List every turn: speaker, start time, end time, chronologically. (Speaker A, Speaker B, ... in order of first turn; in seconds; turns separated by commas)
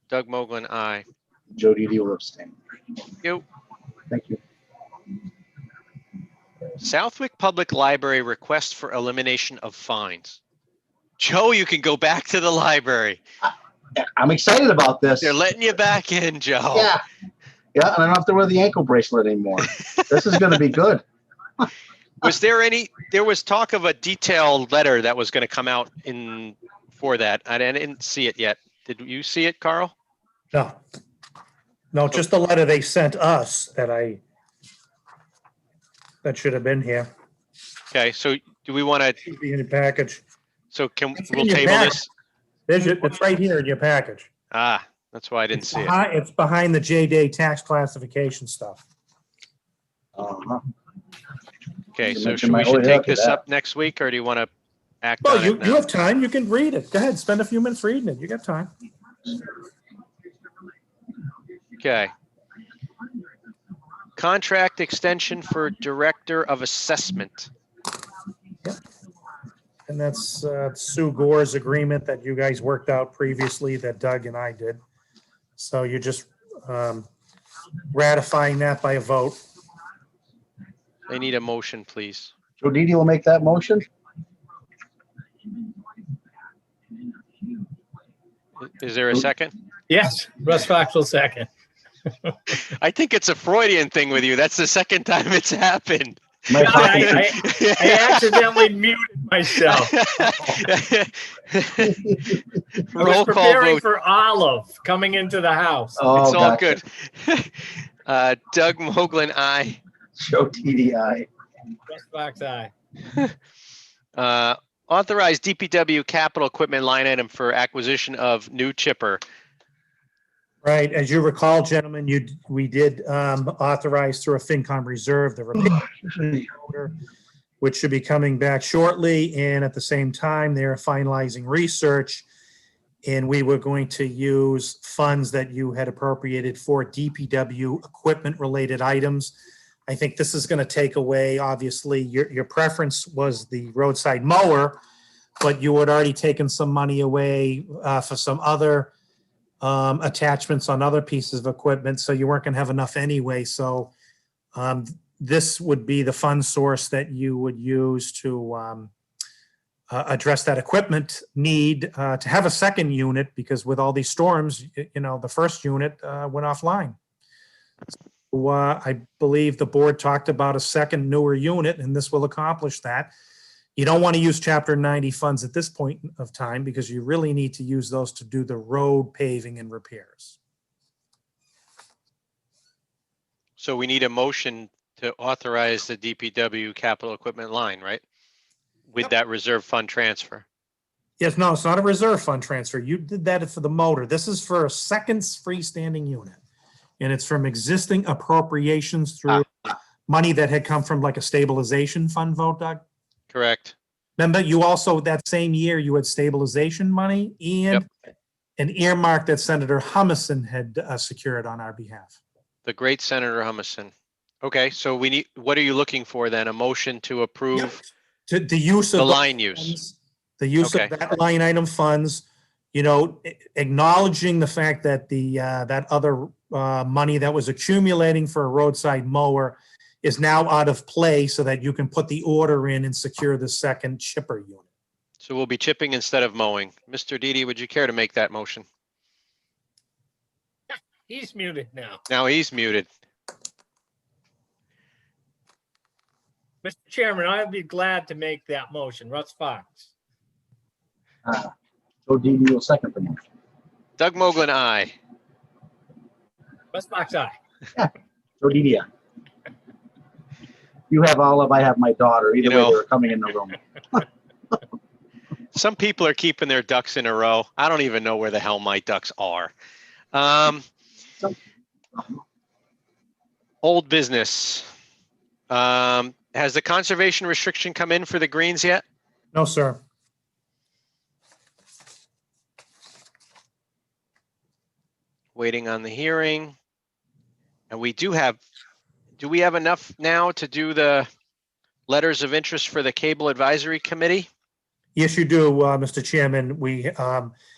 Speaker A: 0.1-1.0, Speaker B: 1.5-2.6, Speaker B: 4.1-4.4, Speaker A: 6.8-10.4, Speaker A: 11.2-13.2, Speaker B: 14.0-15.4, Speaker A: 15.2-17.0, Speaker B: 16.7-17.0, Speaker B: 17.8-21.0, Speaker A: 20.0-20.6, Speaker A: 22.2-29.9, Speaker C: 30.5-30.8, Speaker C: 31.9-34.2, Speaker C: 36.2-37.1, Speaker A: 37.9-39.2, Speaker C: 39.2-40.2, Speaker A: 40.7-42.1, Speaker C: 41.2-42.1, Speaker C: 42.7-44.3, Speaker A: 44.5-45.9, Speaker C: 45.5-48.8, Speaker B: 50.2-50.6, Speaker A: 52.0-54.5, Speaker B: 52.1-53.4, Speaker A: 55.0-55.8, Speaker C: 55.2-58.7, Speaker A: 61.8-62.1, Speaker A: 64.2-67.5, Speaker C: 69.9-74.8, Speaker C: 75.6-77.1, Speaker C: 77.9-79.4, Speaker A: 81.1-82.3, Speaker B: 82.6-83.9, Speaker A: 88.7-89.5, Speaker D: 89.9-91.5, Speaker A: 92.5-98.4, Speaker B: 96.5-97.2, Speaker D: 96.6-100.0, Speaker A: 99.7-103.8, Speaker B: 101.8-102.4, Speaker D: 103.0-106.0, Speaker B: 106.0-106.8, Speaker A: 106.1-109.8, Speaker B: 110.2-111.3, Speaker D: 111.9-112.7, Speaker A: 114.2-119.2, Speaker C: 120.6-127.0, Speaker C: 127.6-132.3, Speaker C: 133.1-139.3, Speaker C: 139.9-144.8, Speaker C: 145.4-148.9, Speaker C: 149.6-153.9, Speaker C: 154.6-158.9, Speaker C: 159.9-167.0, Speaker C: 168.3-173.1, Speaker C: 173.8-180.4, Speaker A: 183.6-188.0, Speaker A: 188.9-190.4, Speaker C: 191.2-196.4, Speaker C: 197.0-199.5, Speaker C: 200.1-202.8, Speaker A: 203.3-203.7, Speaker C: 204.2-207.9, Speaker C: 208.6-212.2, Speaker A: 212.7-213.9, Speaker A: 214.4-217.8, Speaker C: 217.5-234.7, Speaker A: 219.0-219.8, Speaker A: 220.6-220.9, Speaker A: 235.2-238.7, Speaker D: 241.1-242.0, Speaker A: 242.1-242.9, Speaker D: 246.6-249.9, Speaker B: 251.2-251.5, Speaker B: 252.1-253.2, Speaker A: 254.0-254.9, Speaker D: 256.7-257.4, Speaker B: 257.8-258.9, Speaker B: 260.9-264.0, Speaker A: 262.4-262.8, Speaker A: 265.5-269.5, Speaker A: 270.1-270.6, Speaker A: 273.6-274.7, Speaker A: 275.5-278.8, Speaker C: 279.3-279.8, Speaker A: 285.4-286.6, Speaker A: 287.7-288.4, Speaker A: 289.2-291.1, Speaker A: 291.9-294.3, Speaker C: 294.9-297.4